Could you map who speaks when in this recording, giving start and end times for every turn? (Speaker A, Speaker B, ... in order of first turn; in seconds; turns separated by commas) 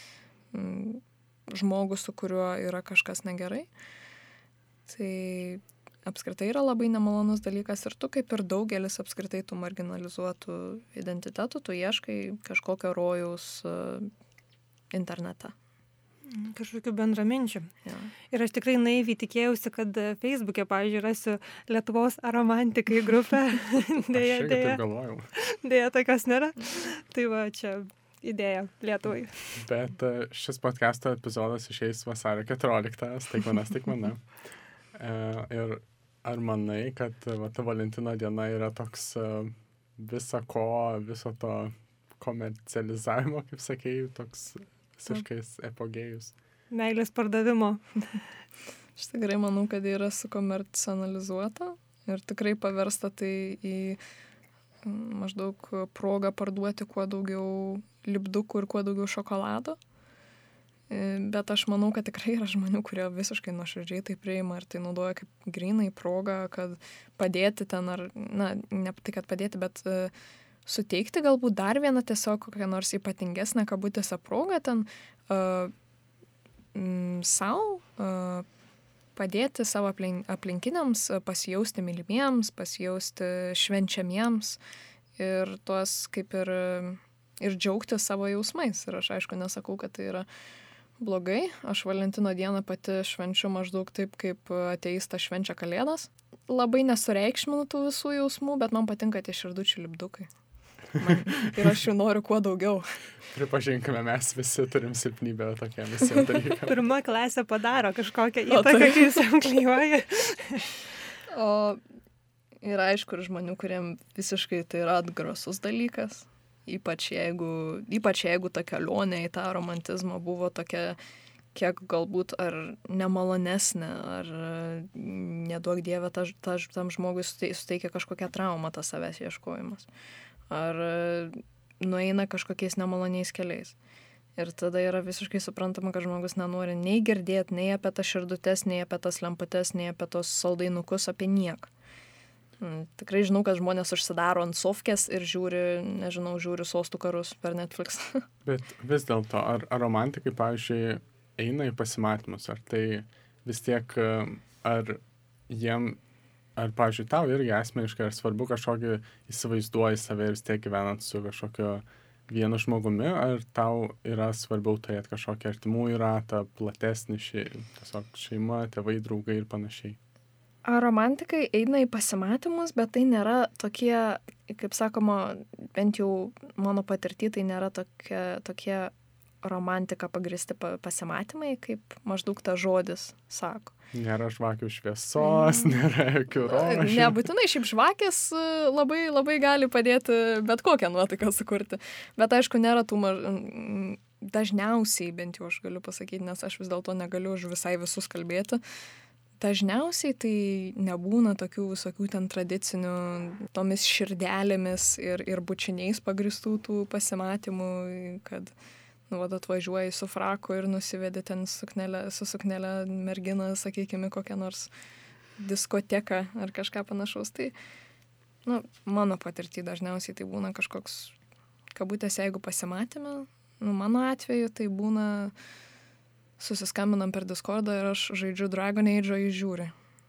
Speaker A: 0.5-3.7, Speaker A: 4.9-14.1, Speaker A: 14.9-15.5, Speaker B: 16.3-17.7, Speaker A: 17.8-18.1, Speaker B: 18.3-24.8, Speaker C: 24.1-25.3, Speaker B: 25.3-29.6, Speaker C: 29.6-46.3, Speaker B: 46.7-48.2, Speaker A: 49.0-54.0, Speaker A: 54.8-59.8, Speaker A: 60.9-70.1, Speaker A: 70.7-75.7, Speaker A: 76.7-78.5, Speaker A: 79.2-84.6, Speaker A: 85.2-90.2, Speaker A: 91.0-100.3, Speaker A: 100.9-103.0, Speaker C: 103.3-106.7, Speaker B: 106.7-110.7, Speaker A: 108.5-109.2, Speaker A: 111.3-111.8, Speaker A: 112.6-121.0, Speaker A: 121.5-129.9, Speaker A: 130.5-133.8, Speaker A: 134.4-141.7, Speaker A: 142.6-148.2, Speaker C: 148.4-156.0, Speaker C: 156.6-170.0, Speaker A: 170.6-183.7, Speaker C: 183.9-187.2, Speaker A: 185.2-185.8, Speaker A: 186.3-198.6, Speaker A: 199.4-208.5, Speaker A: 209.1-214.7, Speaker A: 215.4-217.5, Speaker A: 218.4-221.1, Speaker A: 221.7-225.3, Speaker A: 226.4-229.7